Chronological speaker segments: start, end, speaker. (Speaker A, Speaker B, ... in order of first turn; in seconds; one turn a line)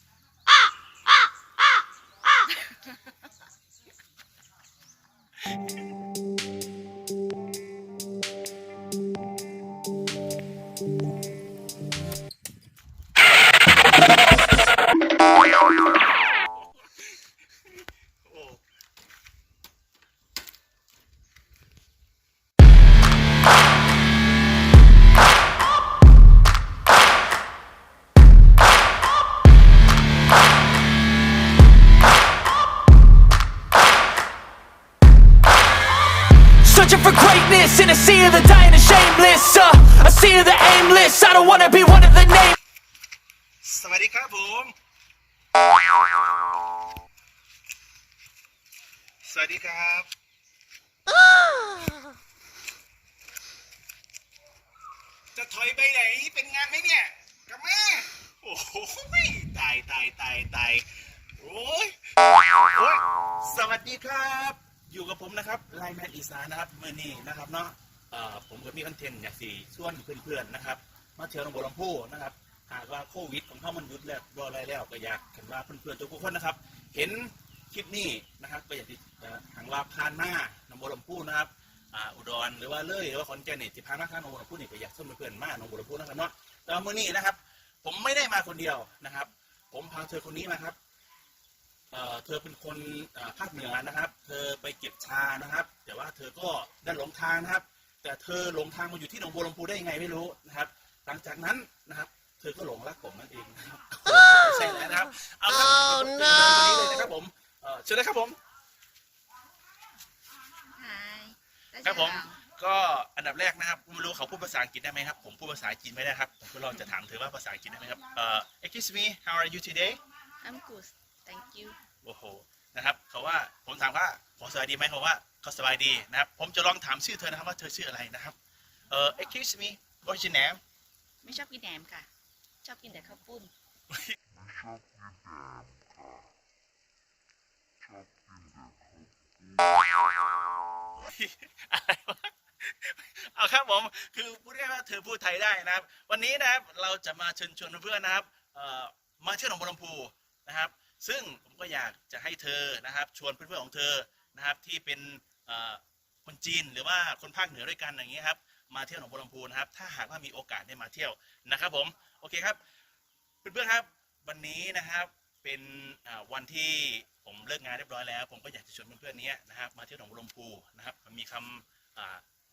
Speaker A: 2.5-3.1
Speaker B: 16.8-18.6
Speaker C: 36.6-42.5
Speaker B: 43.6-44.7
Speaker B: 49.2-50.1
Speaker B: 55.3-90.8
Speaker B: 91.9-108.4
Speaker A: 110.7-112.4
Speaker B: 111.8-120.0
Speaker A: 120.4-121.8
Speaker B: 122.0-128.4
Speaker B: 128.9-130.6
Speaker A: 131.2-132.1
Speaker A: 132.6-133.5
Speaker B: 140.9-162.6
Speaker B: 163.4-172.2